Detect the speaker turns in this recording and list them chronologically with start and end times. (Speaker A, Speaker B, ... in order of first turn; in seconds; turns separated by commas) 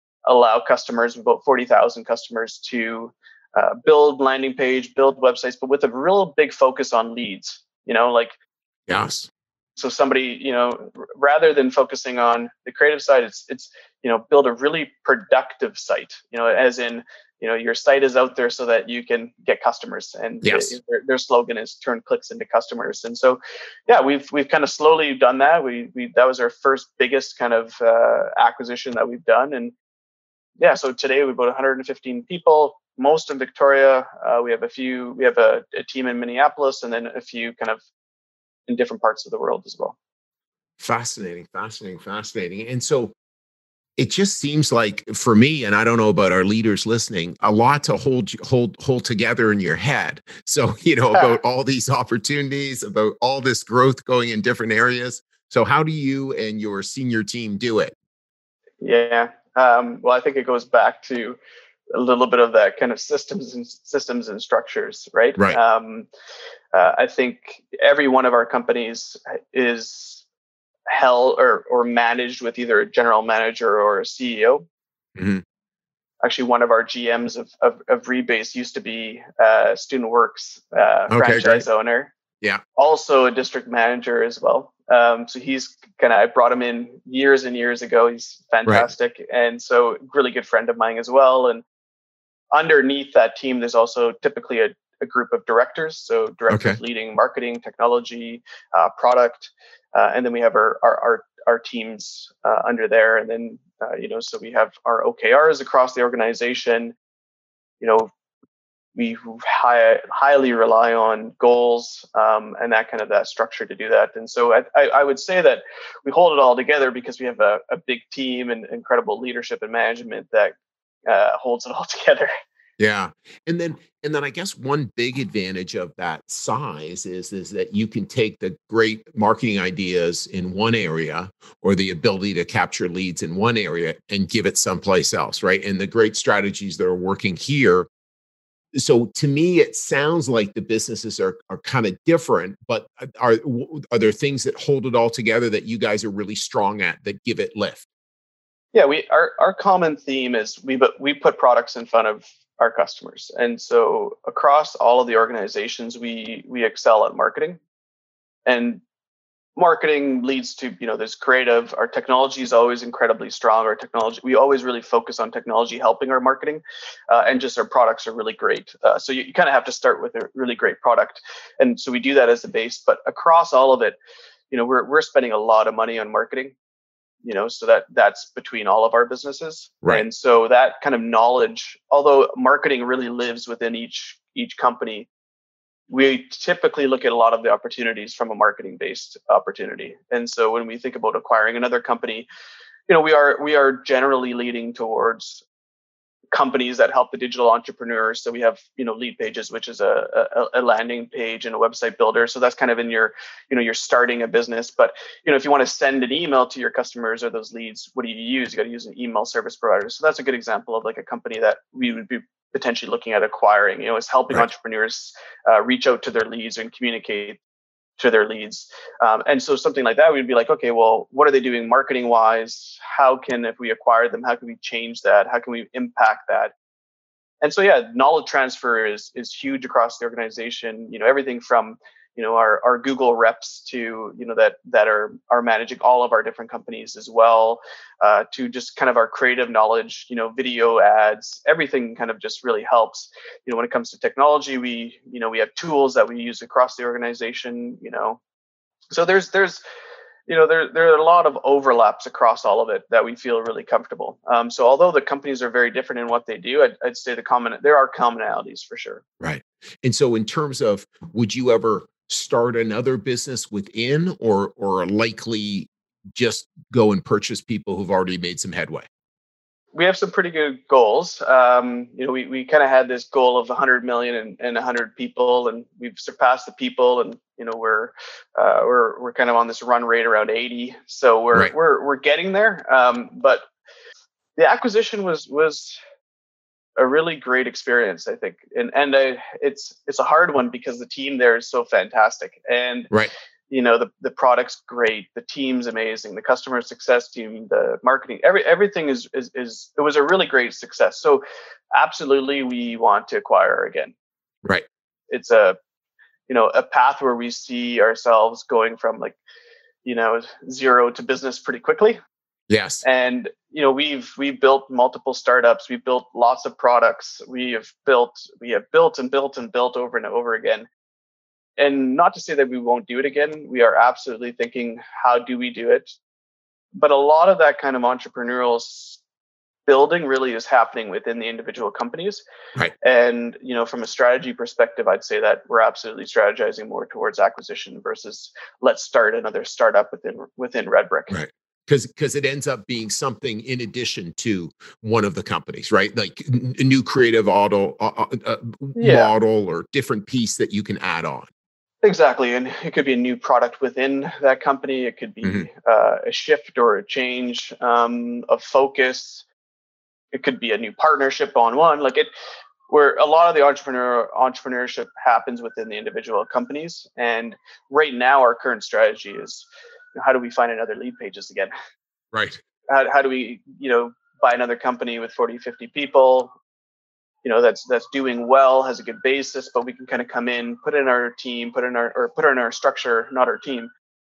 Speaker A: 0.3-8.3, Speaker B: 8.9-9.3, Speaker A: 9.8-29.7, Speaker B: 20.4-20.8, Speaker A: 30.6-37.8, Speaker A: 38.7-40.0, Speaker B: 40.8-43.1, Speaker B: 44.0-58.0, Speaker A: 58.8-61.4, Speaker A: 61.9-66.1, Speaker A: 66.7-70.2, Speaker A: 70.9-74.7, Speaker B: 75.2-75.4, Speaker A: 76.2-82.1, Speaker B: 81.1-81.7, Speaker A: 82.8-91.6, Speaker A: 92.5-106.9, Speaker B: 96.5-96.8, Speaker A: 107.8-108.1, Speaker A: 109.0-122.3, Speaker B: 122.8-137.9, Speaker B: 138.8-147.9, Speaker A: 148.7-157.6, Speaker A: 158.5-158.8, Speaker A: 159.6-174.0, Speaker A: 174.5-176.6, Speaker A: 177.2-185.1, Speaker A: 185.9-192.3, Speaker A: 192.9-195.4, Speaker A: 196.3-217.4, Speaker A: 218.0-226.5, Speaker A: 227.4-248.2, Speaker A: 248.9-249.6, Speaker A: 250.3-259.0, Speaker B: 259.2-268.9, Speaker A: 269.7-283.4, Speaker A: 284.4-285.8, Speaker A: 286.8-292.9, Speaker A: 293.5-303.9, Speaker A: 305.1-305.6, Speaker A: 306.3-309.2, Speaker A: 309.9-312.0, Speaker B: 312.5-312.8, Speaker A: 312.8-320.7, Speaker A: 321.6-326.0, Speaker A: 326.8-329.0, Speaker A: 329.7-332.3, Speaker A: 332.8-341.1, Speaker B: 341.1-351.3, Speaker A: 348.8-349.1, Speaker A: 351.8-359.3, Speaker B: 355.2-355.5, Speaker A: 360.1-362.1, Speaker A: 362.7-371.5, Speaker B: 372.1-372.4, Speaker A: 372.7-376.4, Speaker A: 377.2-383.7